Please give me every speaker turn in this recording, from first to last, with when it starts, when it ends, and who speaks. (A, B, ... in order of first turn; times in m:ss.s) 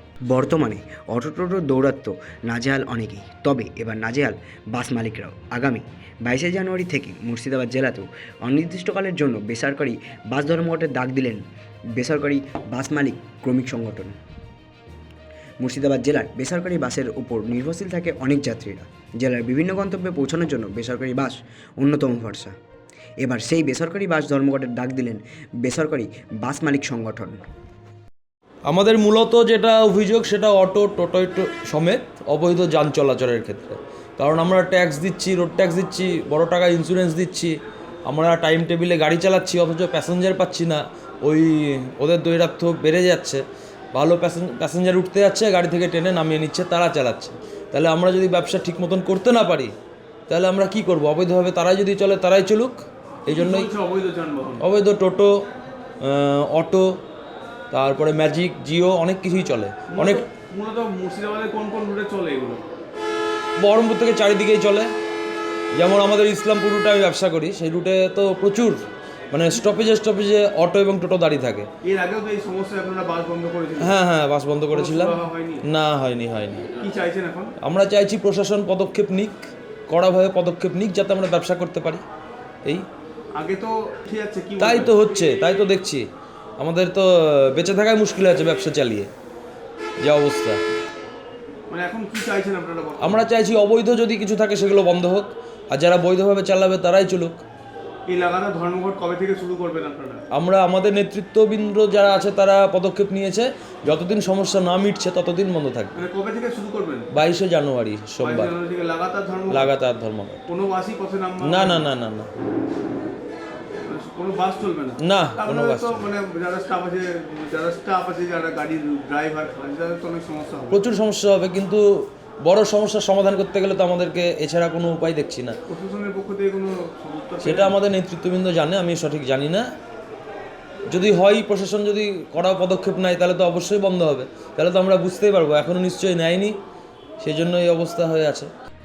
0:00.3-0:11.4 A
0:12.0-0:14.2 A
0:15.6-0:22.6 A
0:23.2-0:27.5 A
0:28.7-0:37.6 B
0:38.1-0:49.7 B
0:50.3-0:53.7 B
0:53.3-0:54.7 C
0:54.6-0:55.4 B
0:56.0-0:57.0 B
0:57.7-1:00.2 B
0:59.9-1:02.6 C
1:03.6-1:04.9 B
1:05.8-1:11.7 B
1:11.8-1:14.0 C
1:13.8-1:16.7 B
1:14.7-1:15.6 C
1:16.8-1:17.5 C
1:17.6-1:22.0 B
1:23.3-1:25.0 C
1:24.6-1:26.0 B
1:26.6-1:29.1 B
1:30.0-1:30.6 B
1:31.7-1:33.3 C
1:33.0-1:37.4 B
1:38.1-1:40.2 C
1:40.3-1:46.0 B
1:46.0-1:47.1 C
1:47.1-1:48.5 B
1:48.2-1:49.7 C
1:49.5-1:50.4 B
1:50.5-1:51.8 C
1:51.4-1:52.3 B
1:53.9-2:00.8 C
1:55.0-1:56.1 B
2:00.7-2:05.6 B
2:05.7-2:07.8 C
2:07.4-2:09.7 B
2:10.9-2:16.6 B
2:17.2-2:18.5 B